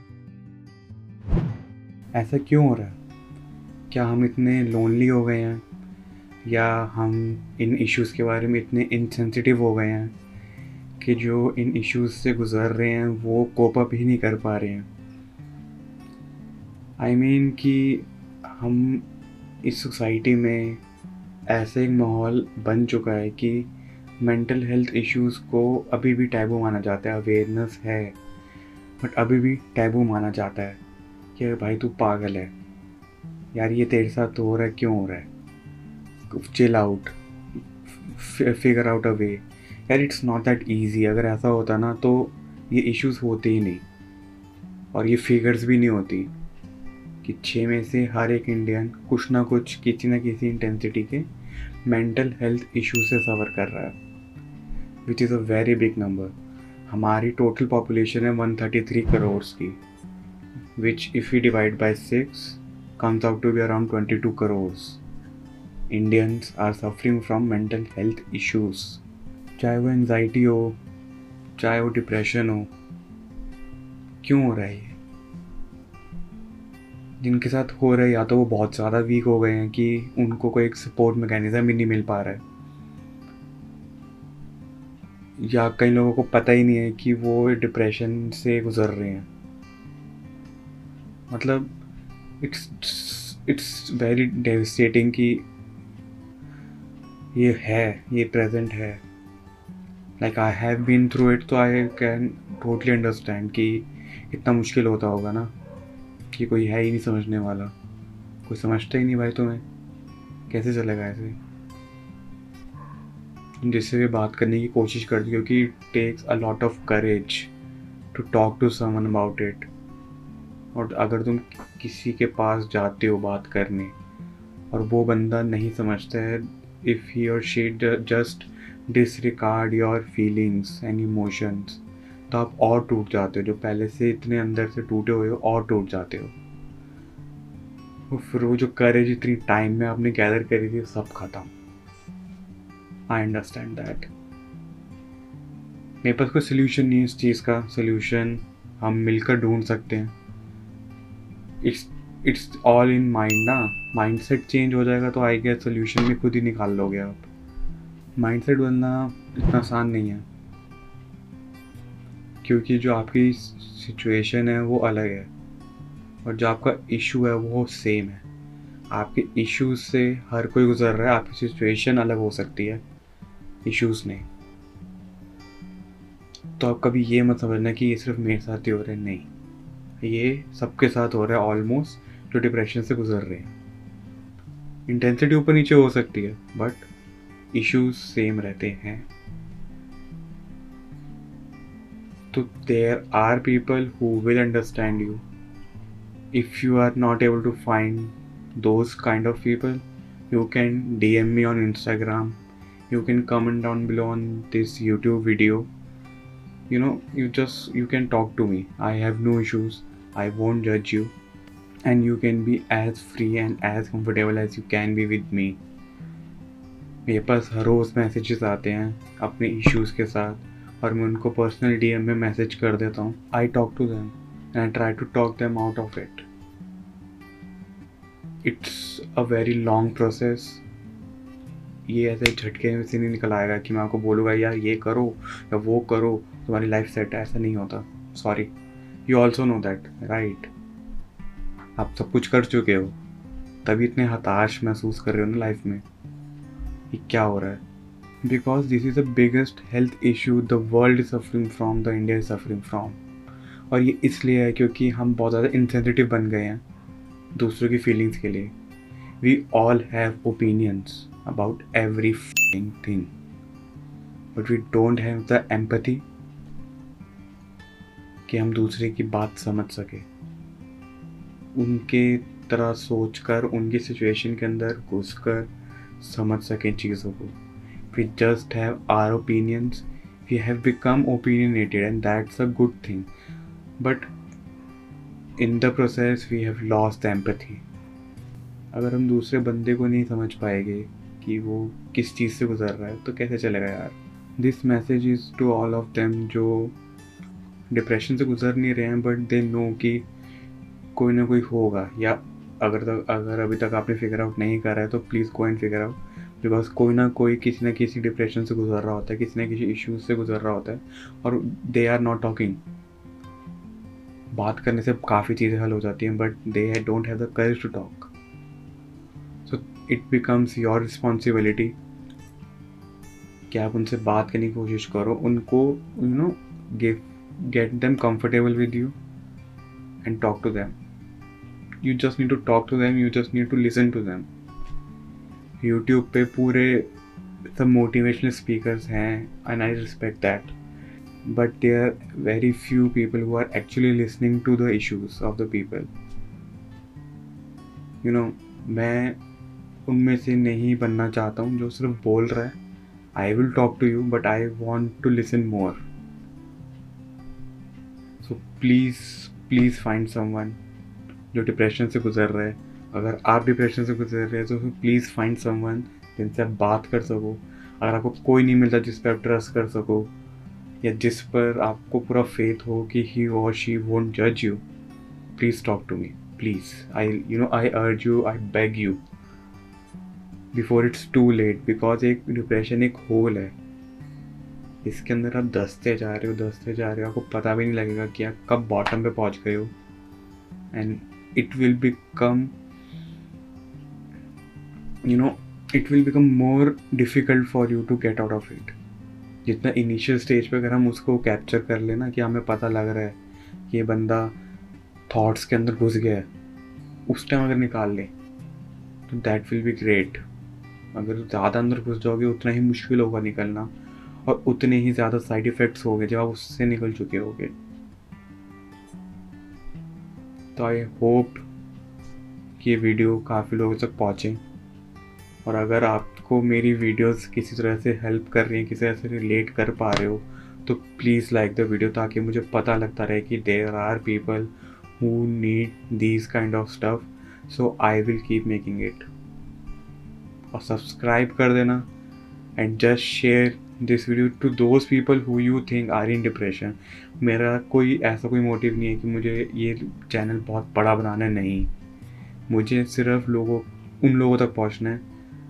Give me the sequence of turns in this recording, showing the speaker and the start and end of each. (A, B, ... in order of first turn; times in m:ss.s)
0:02.1-0:03.0 A
0:03.9-0:05.6 A
0:06.4-0:10.1 A
0:11.0-0:14.9 A
0:17.0-0:19.0 A
0:19.6-0:20.8 A
0:21.5-0:23.7 A
0:24.2-0:28.2 A
0:29.0-0:30.8 A
0:31.4-0:32.5 A
0:33.5-0:35.3 A
0:36.3-0:37.1 A
0:37.8-0:43.8 A
0:44.9-0:46.3 A
0:47.2-0:51.3 A
0:51.8-0:54.0 A
0:55.0-0:56.3 A
0:56.9-0:59.8 A
1:00.8-1:05.0 A
1:05.9-1:09.0 A
1:09.6-1:10.8 A
1:11.6-1:12.7 A
1:14.2-1:15.0 A
1:17.2-1:22.4 A
1:25.4-1:29.3 A
1:31.3-1:31.7 A
1:32.4-1:35.4 A
1:37.3-1:39.0 A
1:40.2-1:45.5 A
1:46.3-1:47.7 A
1:48.4-1:49.6 A
1:50.5-1:51.4 A
1:53.6-1:57.5 A
1:58.1-1:59.7 A
2:00.7-2:03.9 A
2:04.7-2:16.3 A
2:18.1-2:21.5 A
2:23.1-2:24.1 A
2:26.0-2:30.1 A
2:31.6-2:37.3 A
2:38.2-2:40.2 A
2:42.4-2:45.3 A
2:46.2-2:48.2 A
2:48.9-2:52.8 A
2:53.6-2:54.3 A
2:56.6-2:59.3 A
3:00.0-3:03.5 A
3:04.9-3:06.9 A
3:07.5-3:09.1 A
3:12.3-3:15.2 A
3:16.3-3:22.4 A
3:22.9-3:25.7 A
3:26.7-3:31.1 A
3:31.8-3:35.6 A
3:37.0-3:46.2 A
3:48.4-3:50.6 A
3:51.8-3:58.5 A
3:59.1-4:00.5 A
4:01.8-4:03.0 A
4:03.6-4:05.8 A
4:06.9-4:07.6 A
4:08.2-4:13.0 A
4:13.7-4:16.6 A
4:17.3-4:18.5 A
4:19.2-4:23.1 A
4:24.3-4:26.0 A
4:28.3-4:30.1 A
4:31.5-4:37.4 A
4:37.9-4:43.1 A
4:43.8-4:44.1 A
4:45.4-4:47.6 A
4:48.7-4:56.8 A
4:57.7-5:00.0 A
5:01.0-5:12.6 A
5:14.3-5:18.1 A
5:19.4-5:21.8 A
5:23.5-5:29.0 A
5:30.0-5:30.8 A
5:31.8-5:34.3 A
5:35.6-5:36.9 A
5:37.5-5:40.5 A
5:41.2-5:45.9 A
5:48.0-5:49.2 A
5:49.9-5:52.6 A
5:53.1-5:55.8 A
5:58.2-6:00.6 A
6:01.3-6:10.1 A
6:10.8-6:14.6 A
6:15.4-6:19.0 A
6:20.5-6:23.6 A
6:24.8-6:29.7 A
6:30.7-6:32.5 A
6:35.0-6:38.8 A
6:39.4-6:43.2 A
6:43.7-6:44.4 A
6:45.1-6:46.3 A
6:47.1-6:48.1 A
6:49.1-6:50.2 A
6:50.9-6:53.7 A
6:54.2-6:57.5 A
7:00.6-7:01.4 A
7:02.6-7:04.4 A
7:05.4-7:19.1 A
7:20.5-7:21.9 A
7:22.6-7:31.7 A
7:32.5-7:35.0 A